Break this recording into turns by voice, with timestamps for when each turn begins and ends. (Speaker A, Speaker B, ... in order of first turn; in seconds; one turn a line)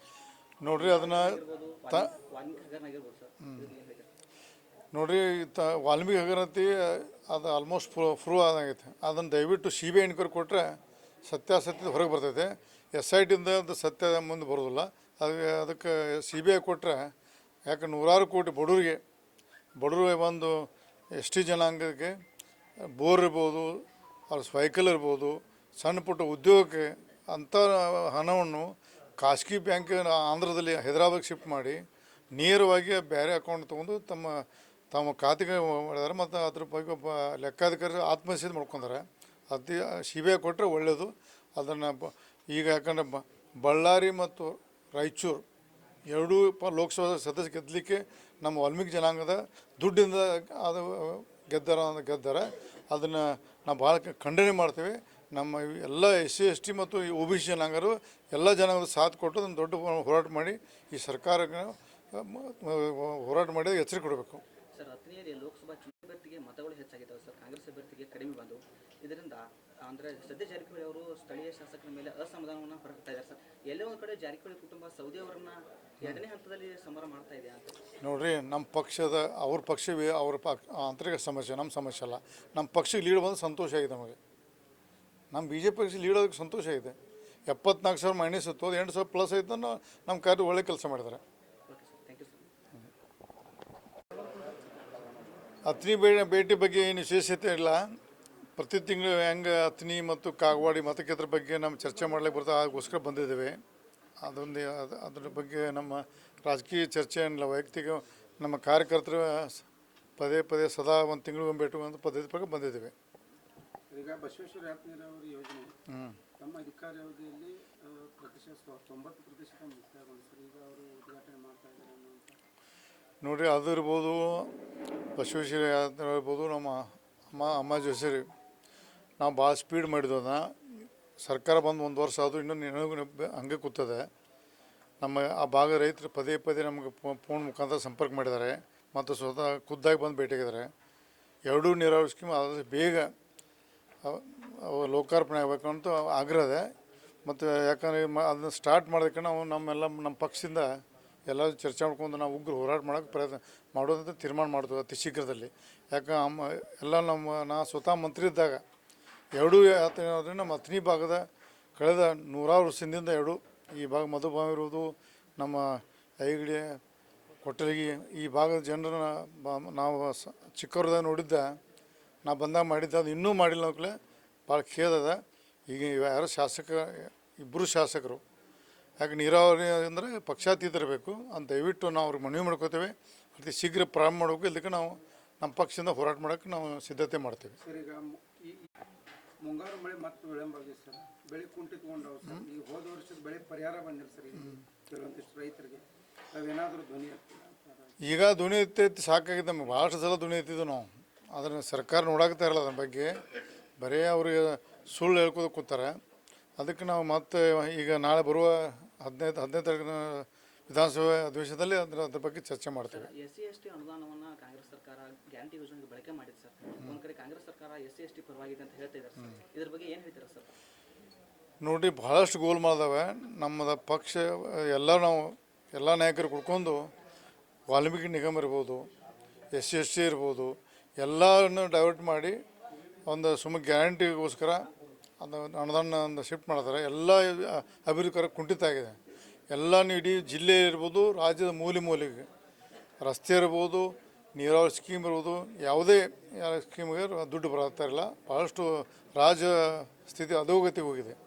Speaker A: 0.6-2.1
Speaker B: 0.7-4.1
Speaker A: 4.9-17.1
Speaker A: 17.7-19.0
Speaker A: 19.8-22.1
Speaker A: 22.8-31.8
Speaker A: 32.3-45.4
Speaker A: 46.1-64.4
Speaker B: 64.7-77.8
Speaker A: 78.0-84.2
Speaker A: 85.3-87.0
Speaker A: 87.5-91.2
Speaker B: 91.7-92.5
Speaker A: 95.7-97.9
Speaker A: 98.5-103.6
Speaker A: 104.2-109.6
Speaker A: 110.2-112.9
Speaker C: 113.9-115.7
Speaker A: 115.9-116.2
Speaker C: 116.4-122.4
Speaker A: 123.2-124.5
Speaker A: 125.2-128.2
Speaker A: 129.2-134.1
Speaker A: 135.0-140.7
Speaker A: 141.5-143.1
Speaker A: 144.0-146.7
Speaker A: 147.2-150.7
Speaker A: 151.3-158.6
Speaker A: 159.3-166.8
Speaker A: 167.4-171.6
Speaker A: 172.2-173.9
Speaker A: 174.5-178.2
Speaker A: 179.0-187.6
Speaker C: 187.6-188.7
Speaker C: 189.4-198.0
Speaker A: 198.0-203.3
Speaker A: 203.8-205.9
Speaker A: 206.6-213.1
Speaker B: 212.8-220.5
Speaker A: 221.6-226.9
Speaker A: 227.7-228.9
Speaker A: 229.5-232.4
Speaker A: 233.1-234.7
Speaker A: 235.2-239.0
Speaker A: 239.5-242.3
Speaker A: 243.0-251.2